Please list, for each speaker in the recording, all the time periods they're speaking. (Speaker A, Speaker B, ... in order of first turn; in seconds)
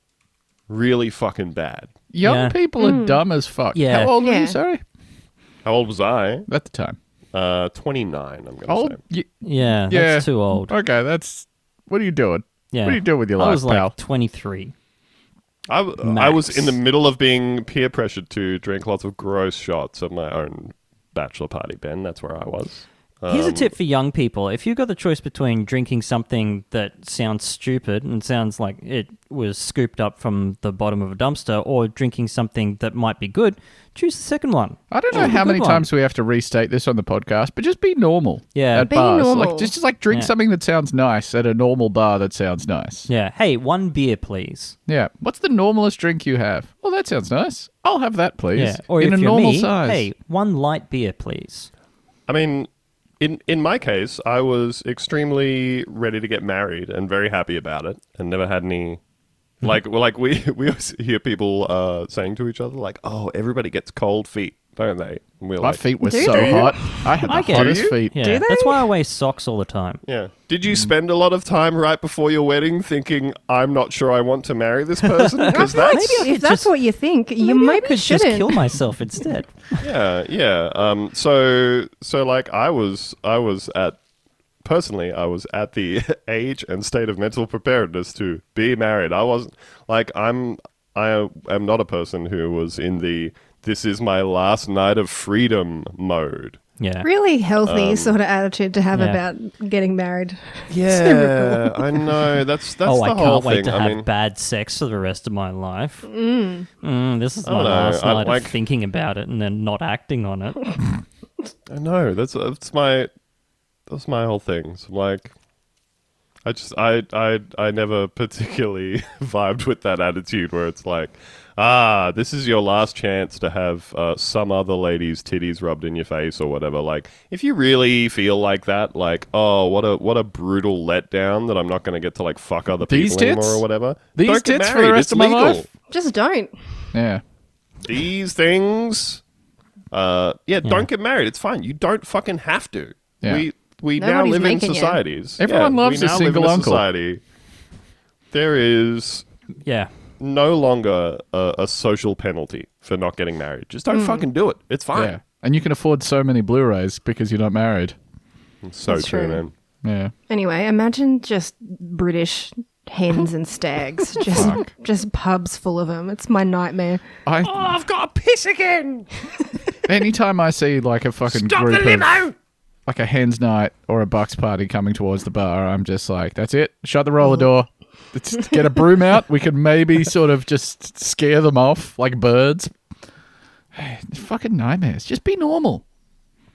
Speaker A: 0.7-1.9, 5.7-6.5, 7.3-9.0, 15.7-23.7, 52.3-52.7, 53.2-59.0, 59.6-66.9, 67.4-68.0, 70.1-76.3, 79.8-84.0, 84.6-96.6, 97.6-98.2, 100.7-104.1, 107.4-108.5, 111.7-113.1, 113.9-115.3, 116.5-135.7, 137.8-139.2, 139.9-147.2, 148.3-149.3, 150.2-155.2, 158.6-159.5, 167.4-169.1, 171.3-172.3
Speaker B: 2.1-4.8, 6.5-7.0, 8.7-13.9, 34.9-43.1, 44.9-50.1, 65.6-68.2, 132.9-133.6, 134.2-135.7, 136.9-137.2, 145.4-146.8, 154.9-158.0, 159.8-160.1, 164.3-164.7, 167.3-167.7, 169.9-172.2, 172.9-182.7, 183.7-185.8
Speaker C: 2.2-2.6, 3.7-4.1, 9.4-10.7, 12.7-14.7, 16.0-16.8, 23.3-35.9, 38.5-38.9, 43.1-44.8, 48.5-51.7, 67.3-70.0, 75.2-76.7, 77.4-79.8, 96.8-97.1, 98.9-99.2, 102.8-106.1, 106.8-110.7, 149.7-149.9
Speaker D: 2.8-3.2, 4.2-4.6, 38.8-39.7, 66.0-67.2, 68.1-68.9, 75.5-78.5, 97.0-102.4, 106.0-106.7, 135.9-136.9, 144.0-145.0, 153.9-154.3, 158.9-159.4, 160.3-167.0, 177.2-177.5